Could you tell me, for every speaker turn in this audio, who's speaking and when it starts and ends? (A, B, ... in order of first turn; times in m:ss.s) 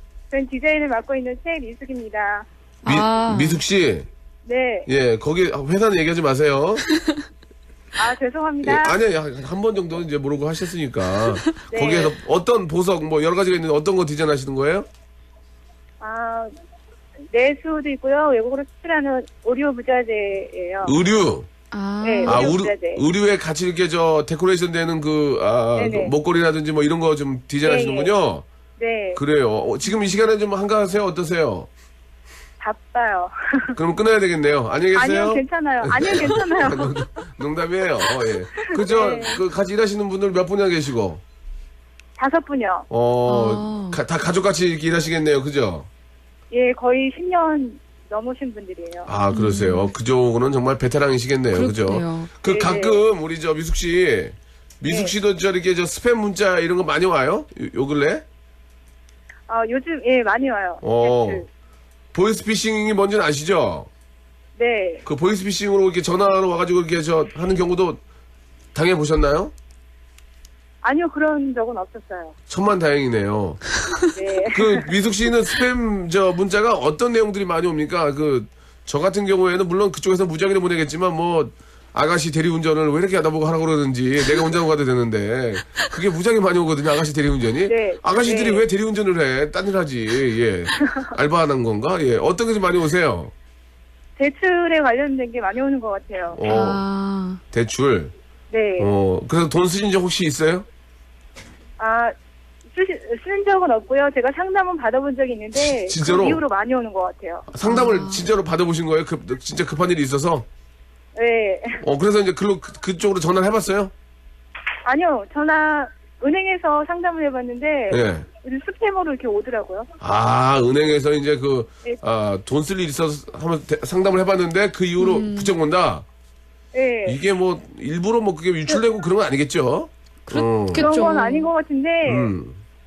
0:00.3-0:02.5 A
0:02.8-0:03.6 B
0:02.8-0:04.1 C
0:04.4-0:04.9 A
0:04.9-0:06.8 C
0:08.0-0:09.0 A
0:08.6-0:14.9 C
0:11.7-0:12.1 A
0:16.0-0:16.5 A
0:17.3-0:21.0 A
0:20.8-0:21.5 C
0:21.7-0:22.5 B
0:22.0-0:23.0 A
0:22.2-0:28.4 C
0:25.7-0:26.1 A
0:27.6-0:28.1 A
0:28.8-0:29.2 A
0:29.2-0:31.7 C
0:32.6-0:33.8 A
0:33.8-0:41.2 C
0:34.9-0:37.1 A
0:38.6-0:39.4 A
0:42.2-0:42.9 A
0:42.9-0:45.9 C
0:43.2-0:44.0 B
0:46.5-0:49.1 A
0:49.0-0:58.2 C
0:49.3-0:49.9 B
0:51.5-0:52.3 B
0:52.4-0:53.0 A
0:54.9-0:55.1 A
0:59.5-1:01.5 A
1:00.8-1:01.4 C
1:02.1-1:03.9 C
1:04.6-1:05.0 A
1:05.0-1:08.0 C
1:08.7-1:09.5 C
1:10.8-1:12.3 A
1:12.5-1:13.6 C
1:14.1-1:14.9 A
1:14.5-1:33.3 C
1:27.7-1:28.7 A
1:34.2-1:36.4 A
1:36.3-1:36.8 C
1:36.4-1:37.4 B
1:37.5-1:38.1 C
1:38.5-1:38.9 A
1:38.8-1:40.6 C
1:41.8-1:42.1 A
1:42.7-1:47.5 A
1:45.6-1:46.4 C
1:47.5-1:50.5 C
1:47.6-1:48.3 B
1:51.2-1:51.8 A
1:51.8-1:53.9 C
1:54.8-1:59.9 A
1:57.9-1:58.2 C
2:00.0-2:06.0 C
2:05.0-2:05.6 B
2:06.7-2:07.2 A
2:07.0-2:10.9 C
2:10.3-2:11.5 B
2:10.8-2:12.4 A
2:12.0-2:12.6 C